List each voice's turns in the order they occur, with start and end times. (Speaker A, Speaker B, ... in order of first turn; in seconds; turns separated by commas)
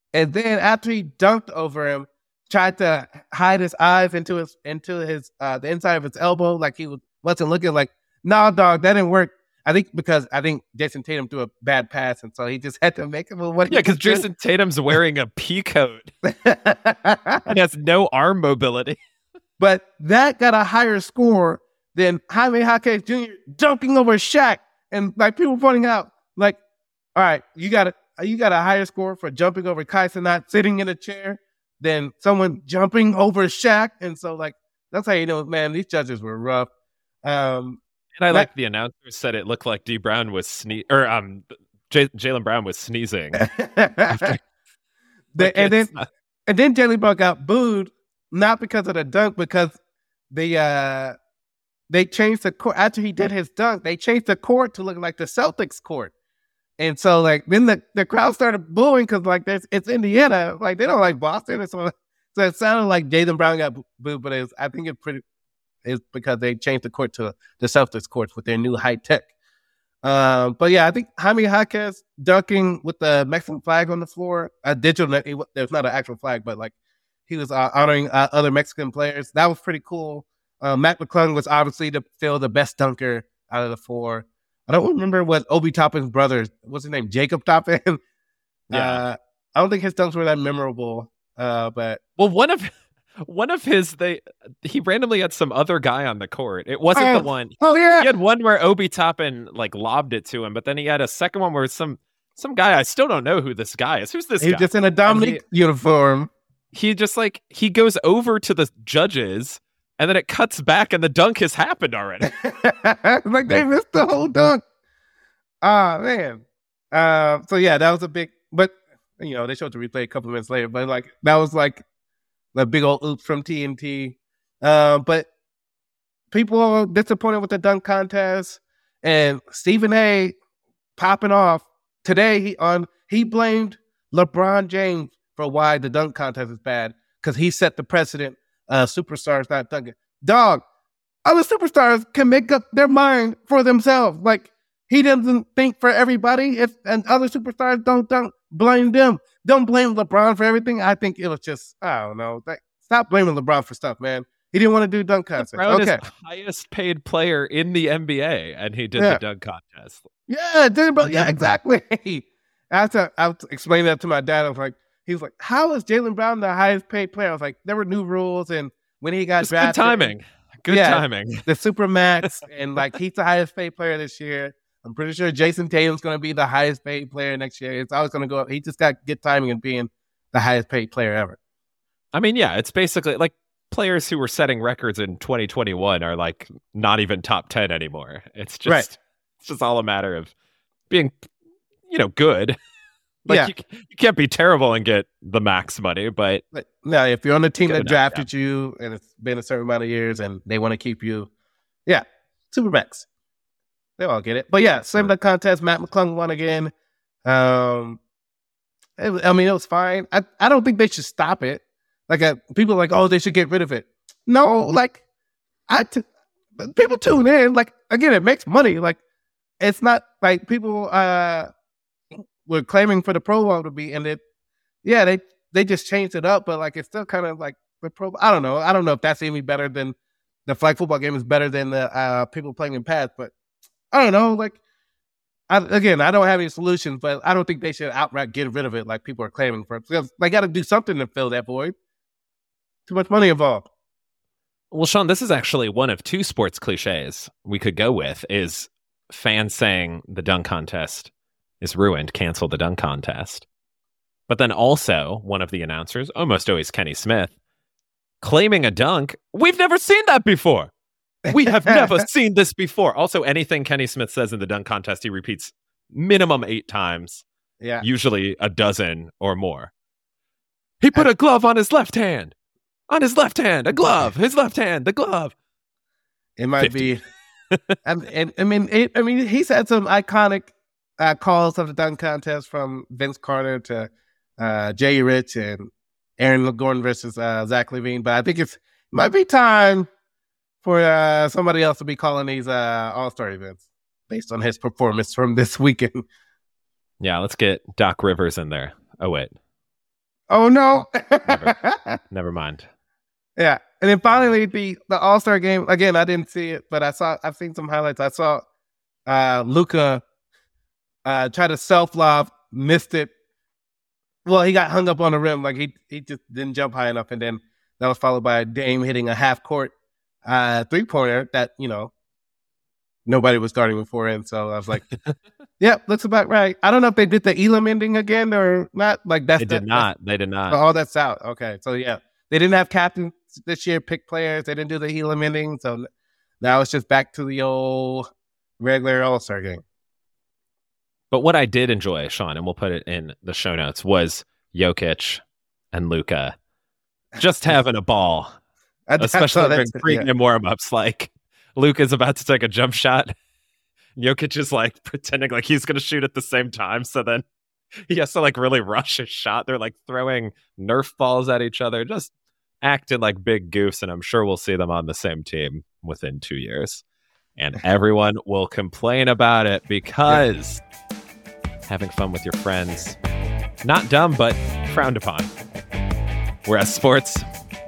Speaker A: 0.1-14.3, Speaker B: 13.7-16.1, Speaker A: 16.2-17.5, Speaker B: 17.5-19.0, Speaker A: 19.6-26.6, Speaker A: 27.1-36.7, Speaker A: 37.2-38.5, Speaker B: 38.2-43.4, Speaker A: 43.3-44.4, Speaker B: 44.1-44.4, Speaker A: 45.4-45.9, Speaker B: 45.4-46.1, Speaker A: 46.5-49.8, Speaker A: 50.3-51.1, Speaker A: 51.9-56.1, Speaker A: 56.8-65.2, Speaker A: 65.8-69.3, Speaker A: 70.0-76.7, Speaker A: 77.3-88.0, Speaker A: 88.7-92.0, Speaker B: 88.7-89.0, Speaker B: 92.2-105.4, Speaker A: 96.9-98.1, Speaker A: 104.4-106.3, Speaker B: 106.7-112.4, Speaker A: 112.2-114.6, Speaker A: 115.6-121.8, Speaker A: 122.5-125.3, Speaker A: 126.3-130.3, Speaker A: 131.0-140.6, Speaker A: 141.2-156.0, Speaker B: 155.4-160.0, Speaker A: 159.0-159.2, Speaker A: 160.3-181.4, Speaker B: 169.4-171.5, Speaker B: 182.1-190.3, Speaker B: 190.9-191.2, Speaker B: 191.9-192.6, Speaker B: 193.2-196.4, Speaker A: 196.5-201.3, Speaker B: 197.7-198.3, Speaker A: 201.9-203.1, Speaker A: 204.0-206.7, Speaker A: 207.2-208.0, Speaker A: 209.0-215.0, Speaker A: 215.7-216.0, Speaker A: 216.6-219.0, Speaker A: 219.6-221.5, Speaker A: 222.4-224.2, Speaker A: 224.8-229.9, Speaker A: 230.5-233.3, Speaker A: 233.9-234.6, Speaker A: 235.5-241.8, Speaker A: 242.9-243.7, Speaker B: 244.7-253.4, Speaker B: 254.3-257.3, Speaker B: 258.2-260.7, Speaker A: 261.3-262.0, Speaker B: 261.3-267.2, Speaker B: 267.8-269.7, Speaker B: 270.8-272.3, Speaker B: 272.9-275.3, Speaker A: 276.4-277.0, Speaker B: 276.6-276.9, Speaker A: 277.8-289.9, Speaker A: 290.6-296.1, Speaker B: 297.0-299.3, Speaker A: 300.3-302.0, Speaker B: 301.2-301.6, Speaker B: 302.1-302.7, Speaker A: 303.4-308.4, Speaker A: 309.1-310.0, Speaker A: 311.1-313.1, Speaker A: 314.3-319.7, Speaker A: 320.2-321.9, Speaker A: 323.1-324.8, Speaker A: 325.6-329.9, Speaker B: 329.4-330.6, Speaker A: 330.5-335.9, Speaker A: 336.4-338.1, Speaker A: 338.6-339.6, Speaker B: 341.1-346.4, Speaker B: 347.2-348.3, Speaker A: 348.9-350.1, Speaker B: 349.0-353.1, Speaker B: 354.0-357.2, Speaker B: 357.9-366.8, Speaker B: 367.4-370.6, Speaker B: 371.7-373.0, Speaker B: 373.6-375.3, Speaker B: 376.4-377.3